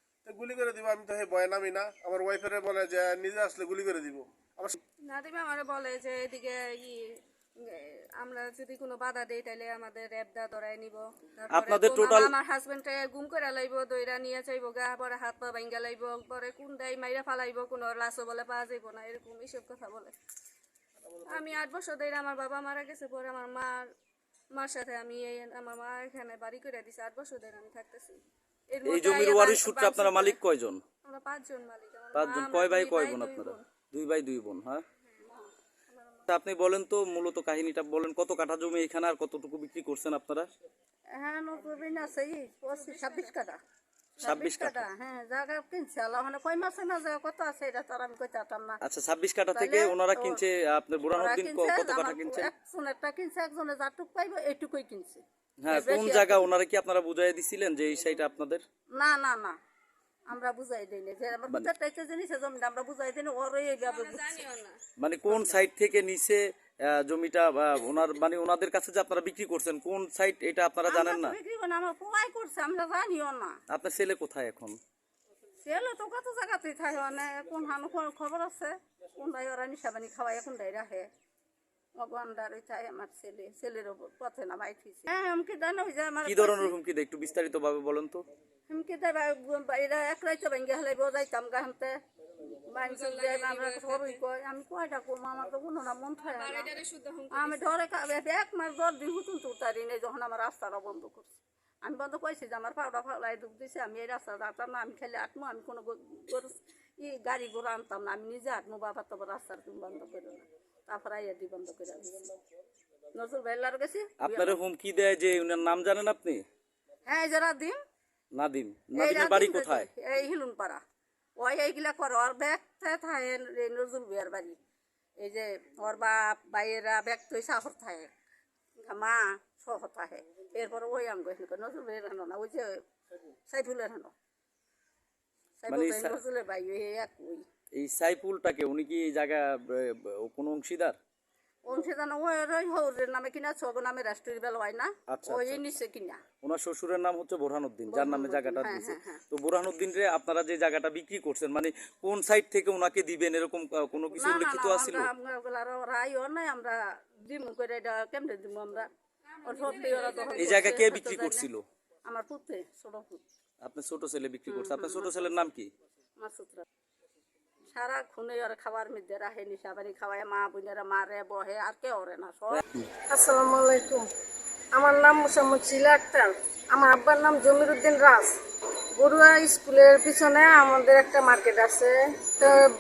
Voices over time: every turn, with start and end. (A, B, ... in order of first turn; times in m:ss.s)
0:00.3-0:04.8 A
0:05.0-0:20.2 B
0:11.5-0:12.3 C
0:21.3-0:23.9 B
0:24.5-0:28.2 B
0:28.7-0:30.4 B
0:28.9-0:30.8 C
0:31.0-0:33.6 B
0:32.1-0:34.8 C
0:36.3-0:40.5 C
0:41.2-0:43.6 D
0:44.2-0:48.8 D
0:44.2-0:44.8 C
0:48.8-0:52.5 C
0:49.5-0:50.4 D
0:51.1-0:56.5 D
0:55.6-0:58.6 C
0:59.0-0:59.6 D
1:00.3-1:04.4 D
1:03.8-1:04.8 B
1:05.0-1:11.4 C
1:10.9-1:13.6 D
1:13.7-1:14.8 C
1:15.6-1:21.1 D
1:22.0-1:26.8 D
1:26.2-1:28.2 C
1:28.7-1:32.0 D
1:32.7-1:36.8 D
1:32.9-1:34.2 B
1:36.4-1:37.6 B
1:37.3-1:52.3 D
1:53.1-1:54.6 D
1:54.2-1:56.4 C
1:57.1-1:57.8 D
1:58.4-1:59.9 C
1:58.9-2:00.8 D
2:01.4-2:04.6 D
2:05.2-2:08.1 D
2:08.8-2:12.8 D
2:13.5-2:14.1 D
2:15.6-2:17.4 D
2:15.7-2:16.2 C
2:17.8-2:21.0 C
2:21.7-2:26.2 D
2:25.1-2:25.7 C
2:26.4-2:35.1 C
2:27.9-2:29.2 D
2:34.2-2:38.9 D
2:39.4-2:41.5 D
2:40.3-2:41.6 C
2:42.1-2:43.2 D
2:43.6-2:45.7 C
2:44.5-2:45.3 D
2:46.2-2:46.6 D
2:47.8-2:52.6 D
2:52.5-2:52.8 C
2:53.2-2:54.0 E
2:54.8-2:58.3 E
2:59.0-3:02.5 E